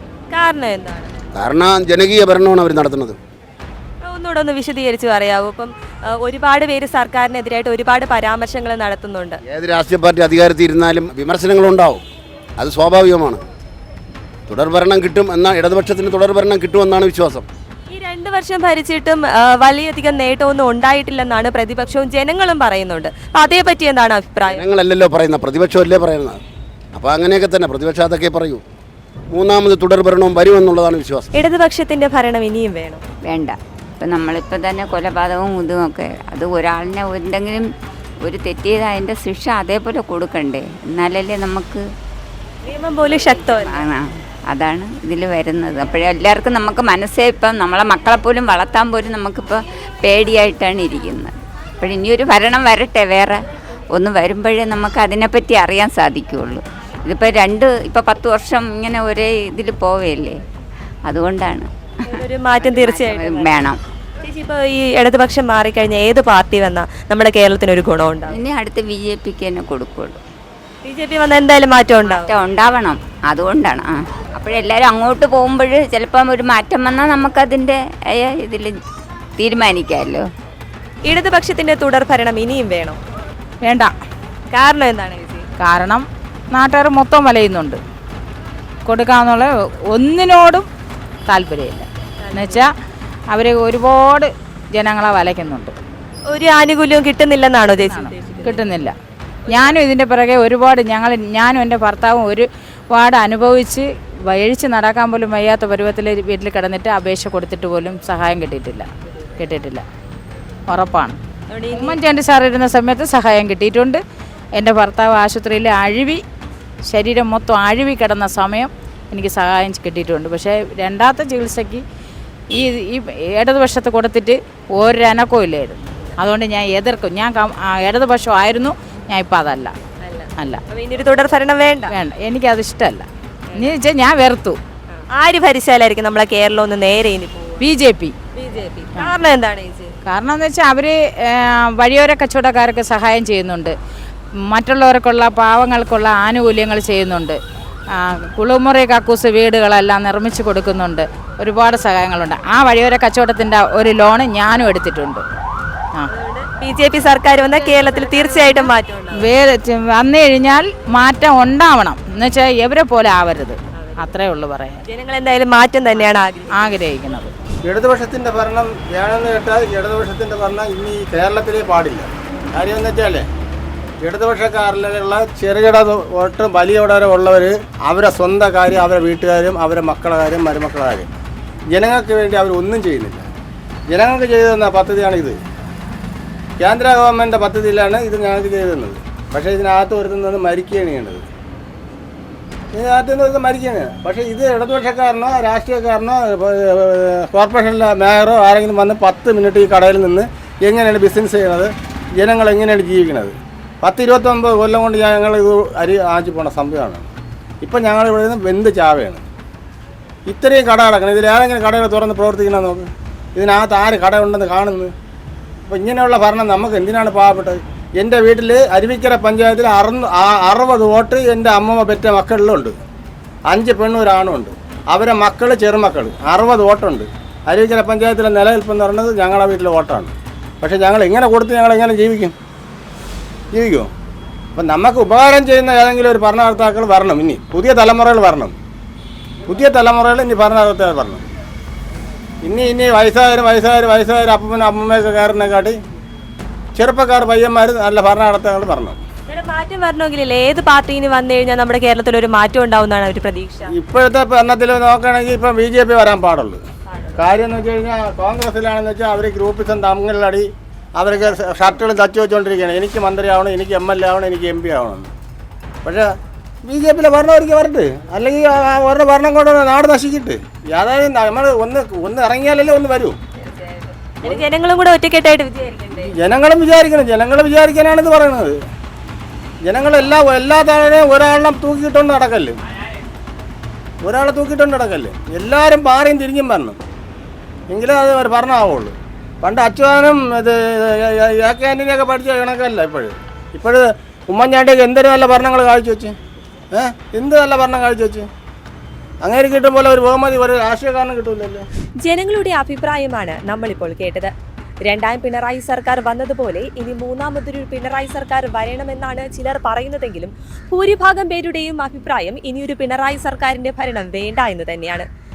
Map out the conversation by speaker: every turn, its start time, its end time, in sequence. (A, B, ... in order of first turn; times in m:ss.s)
0:00.3-0:01.1 A
0:01.3-0:03.2 B
0:04.0-0:09.4 A
0:09.5-0:12.0 B
0:12.6-0:13.4 B
0:14.5-0:17.4 B
0:17.9-0:24.6 A
0:24.5-0:26.4 B
0:26.9-0:28.6 B
0:29.3-0:31.3 B
0:31.3-0:33.0 A
0:33.3-0:37.6 C
0:38.2-0:41.8 C
0:42.6-0:43.9 A
0:43.2-0:53.4 C
0:53.9-1:00.3 C
1:01.1-1:01.7 C
1:02.0-1:03.7 A
1:02.2-1:03.8 C
1:04.2-1:08.4 A
1:08.3-1:10.2 C
1:10.8-1:12.3 A
1:12.0-1:18.7 C
1:19.4-1:20.2 C
1:21.1-1:23.0 A
1:23.6-1:23.9 D
1:24.5-1:25.4 A
1:25.6-1:27.8 D
1:28.8-1:30.7 D
1:31.3-1:32.7 D
1:32.2-1:32.6 A
1:33.3-1:35.8 D
1:36.3-1:38.7 A
1:37.8-1:38.9 D
1:39.4-1:39.8 A
1:39.5-1:49.8 D
1:50.7-1:51.2 D
1:51.5-1:52.0 A
1:51.7-1:54.0 D
1:54.6-1:56.2 D
1:56.9-2:01.8 D
2:02.5-2:09.7 D
2:10.0-2:11.9 A
2:11.9-2:13.0 D
2:13.6-2:14.6 D
2:14.9-2:17.6 A
2:17.6-2:18.1 D
2:18.4-2:19.9 A
2:20.0-2:23.7 D
2:24.5-2:27.4 D
2:28.0-2:35.2 D
2:36.1-2:39.3 A
2:37.7-2:38.7 D
2:39.2-2:44.8 D
2:43.8-2:44.1 A
2:44.8-2:46.7 A
2:46.6-2:47.3 D
2:47.6-2:53.3 E
2:54.0-3:01.1 E
3:01.7-3:03.2 E
3:03.9-3:05.4 E
3:06.6-3:11.3 E
3:12.7-3:27.1 E
3:27.6-3:29.2 E
3:30.3-3:34.9 E
3:35.7-3:42.8 E
3:43.5-3:52.3 E
3:53.5-3:53.9 E
3:54.6-3:58.5 E
3:59.5-4:01.2 E
4:02.4-4:05.8 E
4:06.8-4:09.0 E
4:09.3-4:13.7 A
4:13.7-4:16.6 E
4:16.9-4:17.2 A
4:17.2-4:25.1 E
4:25.8-4:26.1 E
4:26.6-4:33.2 E
4:33.4-4:36.1 A
4:36.0-4:38.6 E
4:39.7-4:42.5 E
4:44.0-4:46.8 E
4:47.7-4:56.1 E
4:56.7-4:58.3 E
4:59.2-5:01.6 E
5:02.0-5:04.3 A
5:04.8-5:15.0 A